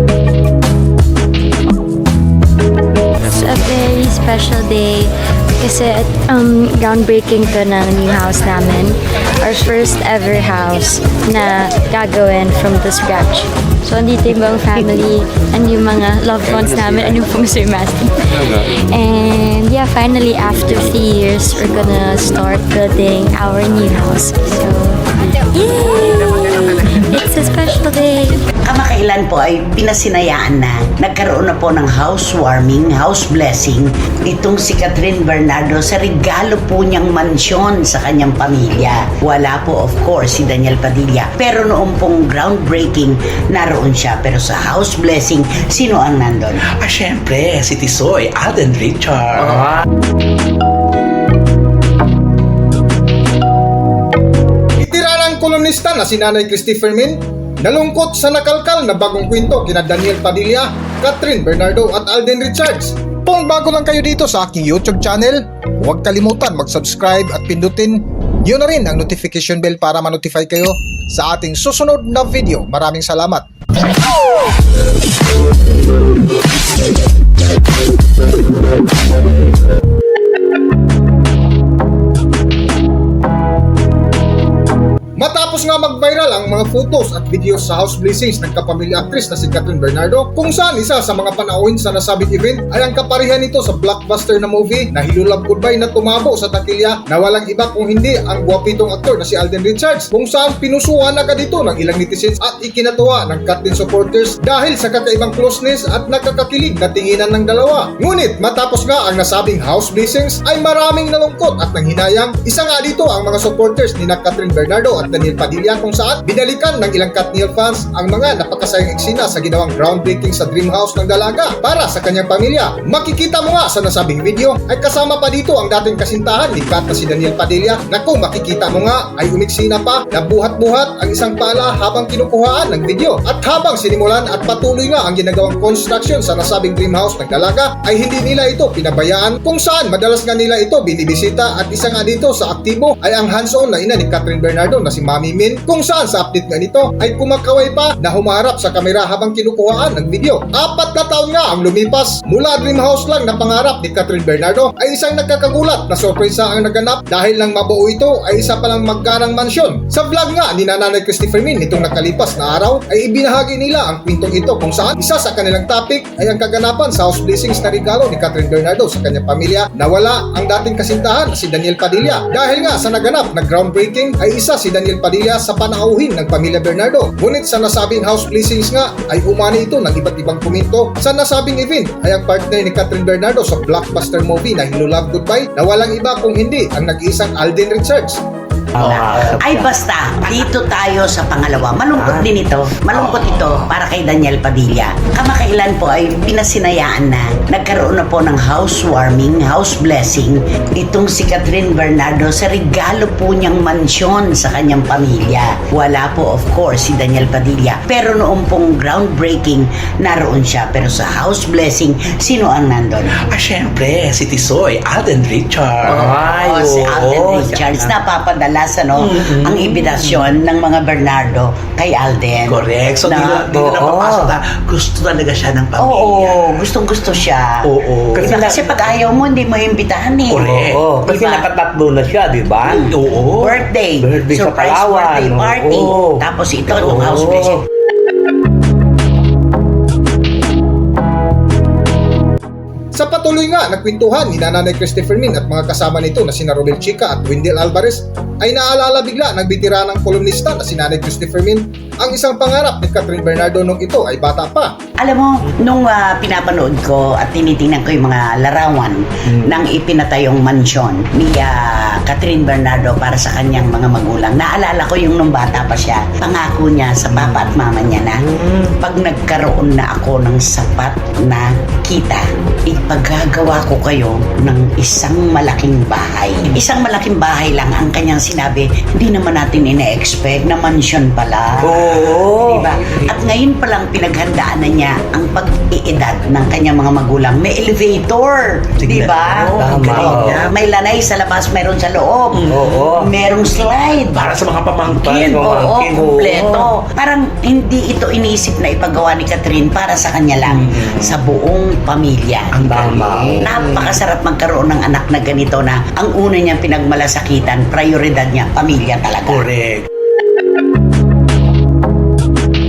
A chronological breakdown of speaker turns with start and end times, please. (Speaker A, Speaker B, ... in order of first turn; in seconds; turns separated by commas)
Speaker A: 3.2-28.4, Speaker B: 28.6-46.6, Speaker C: 46.7-49.7, Speaker D: 54.8-73.4, Speaker D: 85.2-188.2, Speaker E: 188.7-189.7, Speaker B: 188.8-213.1, Speaker E: 192.0-192.2, Speaker C: 213.2-216.0, Speaker E: 215.8-217.9, Speaker B: 215.9-223.5, Speaker C: 219.0-220.3, Speaker C: 222.5-226.6, Speaker E: 223.5-224.3, Speaker B: 225.8-227.7, Speaker C: 227.6-228.3, Speaker E: 228.2-228.9, Speaker B: 228.2-230.5, Speaker C: 230.3-230.8, Speaker E: 230.3-232.8, Speaker B: 231.0-231.5, Speaker B: 232.6-237.6, Speaker C: 232.9-233.6, Speaker E: 234.0-237.6, Speaker D: 242.9-254.7, Speaker B: 255.0-302.6, Speaker E: 267.2-267.6, Speaker E: 268.3-268.6, Speaker E: 281.6-282.9, Speaker C: 288.8-290.5, Speaker E: 289.2-290.5, Speaker E: 292.5-293.1, Speaker C: 294.1-295.4, Speaker E: 294.9-296.7, Speaker C: 300.5-300.9, Speaker C: 302.5-303.4, Speaker E: 302.6-304.0, Speaker B: 303.4-309.5, Speaker C: 309.3-309.9